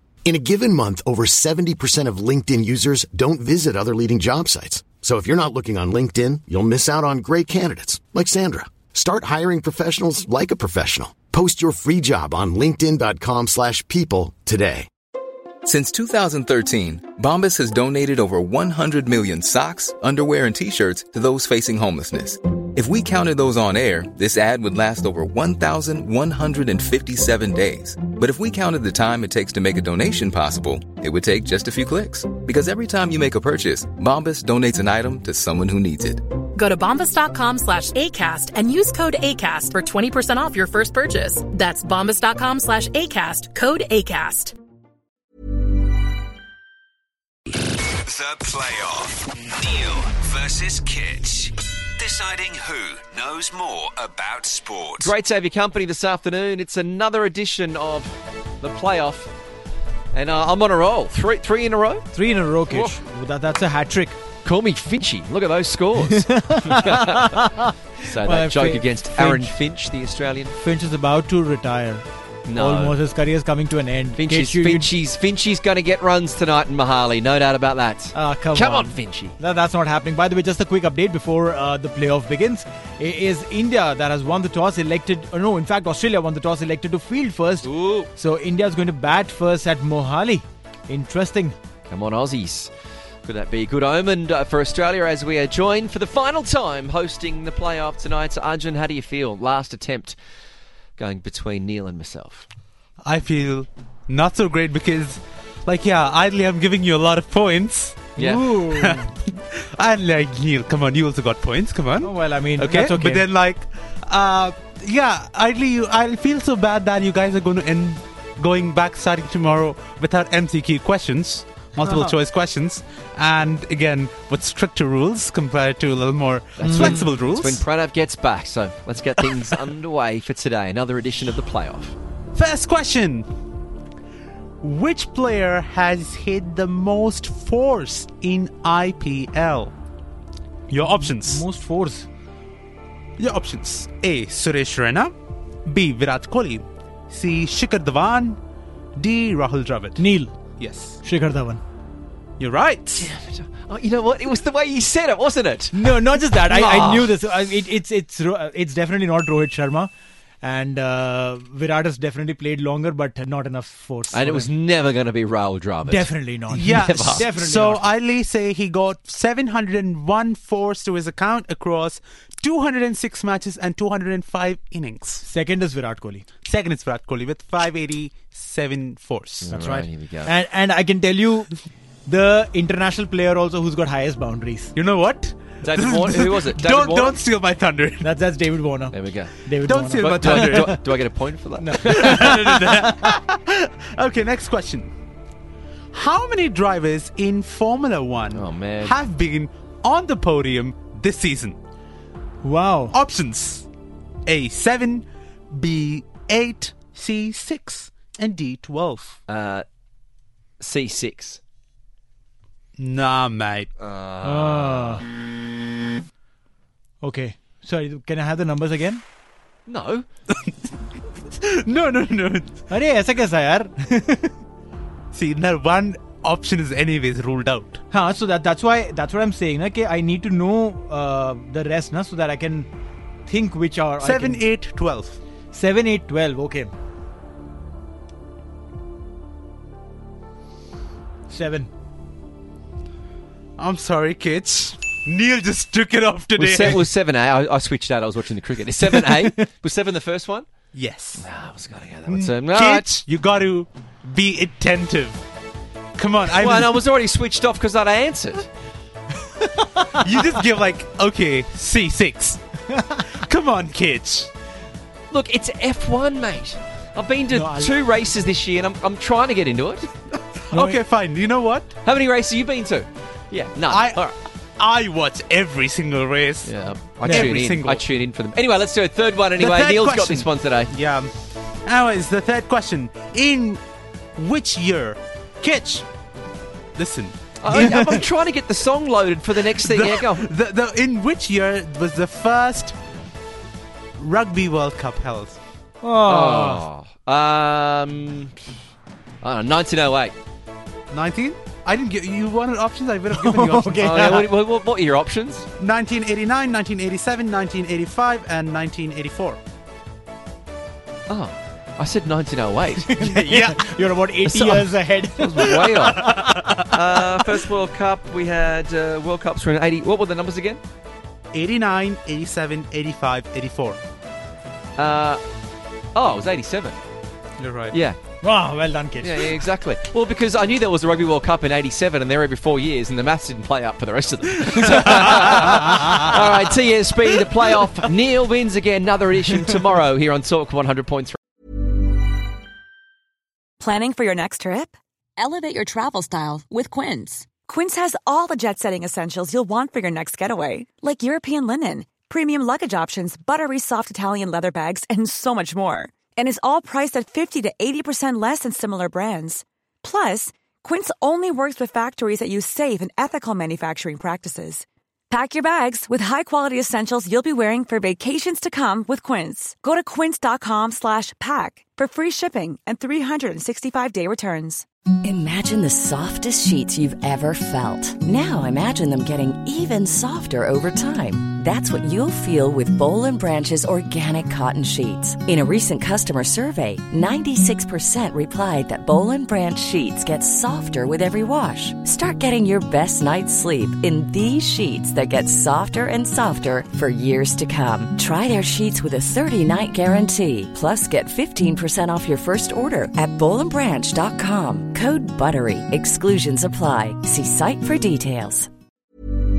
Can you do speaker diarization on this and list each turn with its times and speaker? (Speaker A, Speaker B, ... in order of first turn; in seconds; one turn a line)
Speaker A: 0.2-14.9
Speaker B: 15.6-36.2
Speaker C: 36.5-44.5
Speaker D: 48.0-55.1
Speaker E: 55.0-59.3
Speaker E: 60.1-62.1
Speaker F: 62.1-64.2
Speaker E: 62.7-63.0
Speaker E: 64.4-70.5
Speaker F: 66.3-66.5
Speaker F: 67.2-67.7
Speaker F: 68.2-69.5
Speaker F: 70.5-74.9
Speaker E: 72.5-73.0
Speaker E: 74.2-79.3
Speaker F: 78.1-91.5
Speaker E: 87.6-88.1
Speaker E: 91.9-92.7
Speaker E: 93.2-100.2
Speaker E: 101.0-102.4
Speaker G: 103.0-108.1
Speaker F: 108.2-109.1
Speaker E: 108.2-108.5
Speaker G: 108.7-127.7
Speaker F: 112.0-113.2
Speaker E: 126.6-131.9
Speaker G: 132.3-133.3
Speaker G: 134.6-139.7
Speaker G: 140.7-141.4
Speaker F: 140.9-142.1
Speaker G: 143.2-145.1
Speaker G: 145.7-148.4
Speaker G: 149.0-150.0
Speaker F: 149.9-150.3
Speaker G: 150.6-151.0
Speaker F: 151.0-151.6
Speaker G: 152.4-153.1
Speaker E: 152.9-155.8
Speaker F: 155.7-159.9
Speaker G: 156.5-156.8
Speaker E: 156.6-157.1
Speaker F: 160.4-164.5
Speaker E: 164.1-167.3
Speaker F: 165.8-167.9
Speaker G: 166.5-175.2
Speaker F: 175.2-176.2
Speaker G: 176.4-179.5
Speaker E: 179.4-180.3
Speaker F: 179.5-181.5
Speaker F: 182.1-184.7
Speaker G: 184.7-188.1
Speaker E: 185.6-187.2
Speaker F: 188.0-190.8
Speaker E: 188.9-189.3
Speaker G: 189.6-190.7
Speaker E: 190.0-192.5
Speaker F: 191.6-192.7
Speaker G: 191.8-194.9
Speaker G: 195.9-201.6
Speaker E: 198.3-199.0
Speaker F: 202.4-202.9
Speaker G: 202.9-203.7
Speaker G: 204.2-209.2
Speaker E: 209.3-209.6
Speaker E: 210.6-211.4
Speaker G: 212.8-213.7
Speaker E: 213.9-214.9
Speaker F: 214.2-215.0
Speaker F: 217.0-219.0
Speaker E: 219.7-220.1
Speaker G: 221.4-222.6
Speaker F: 222.7-224.3
Speaker G: 225.1-227.8
Speaker F: 227.9-232.7
Speaker F: 233.2-234.4
Speaker G: 234.0-235.2
Speaker F: 235.5-236.7
Speaker F: 241.3-241.7
Speaker G: 243.6-246.9
Speaker E: 246.3-250.4
Speaker G: 250.7-251.2
Speaker E: 251.2-253.0
Speaker G: 252.1-255.2
Speaker G: 256.0-256.8
Speaker E: 256.2-258.5
Speaker G: 260.0-262.4
Speaker G: 263.1-264.3
Speaker E: 265.1-269.9
Speaker F: 267.3-267.7
Speaker G: 270.5-271.7
Speaker F: 270.5-270.8
Speaker E: 271.8-274.1
Speaker G: 273.7-274.0
Speaker G: 274.6-276.5
Speaker E: 276.4-280.7
Speaker G: 277.0-277.8
Speaker F: 277.0-277.3
Speaker G: 279.4-281.1
Speaker G: 281.6-283.6
Speaker G: 284.2-285.9
Speaker G: 286.8-288.0
Speaker E: 287.4-290.3
Speaker G: 289.4-292.8
Speaker G: 294.0-295.4
Speaker F: 295.8-296.6
Speaker E: 296.0-298.3
Speaker E: 299.2-300.1
Speaker G: 300.9-304.2
Speaker F: 303.1-304.3
Speaker E: 303.8-305.4
Speaker G: 305.6-309.4
Speaker E: 311.1-313.5
Speaker F: 312.9-315.5
Speaker G: 313.3-313.5
Speaker E: 314.3-320.6
Speaker G: 315.7-316.7
Speaker G: 321.3-323.8
Speaker E: 324.8-325.2
Speaker E: 325.9-326.8
Speaker G: 327.4-327.7
Speaker E: 327.7-328.0
Speaker F: 328.2-329.3
Speaker E: 329.0-341.2
Speaker H: 343.6-374.6
Speaker I: 375.0-408.5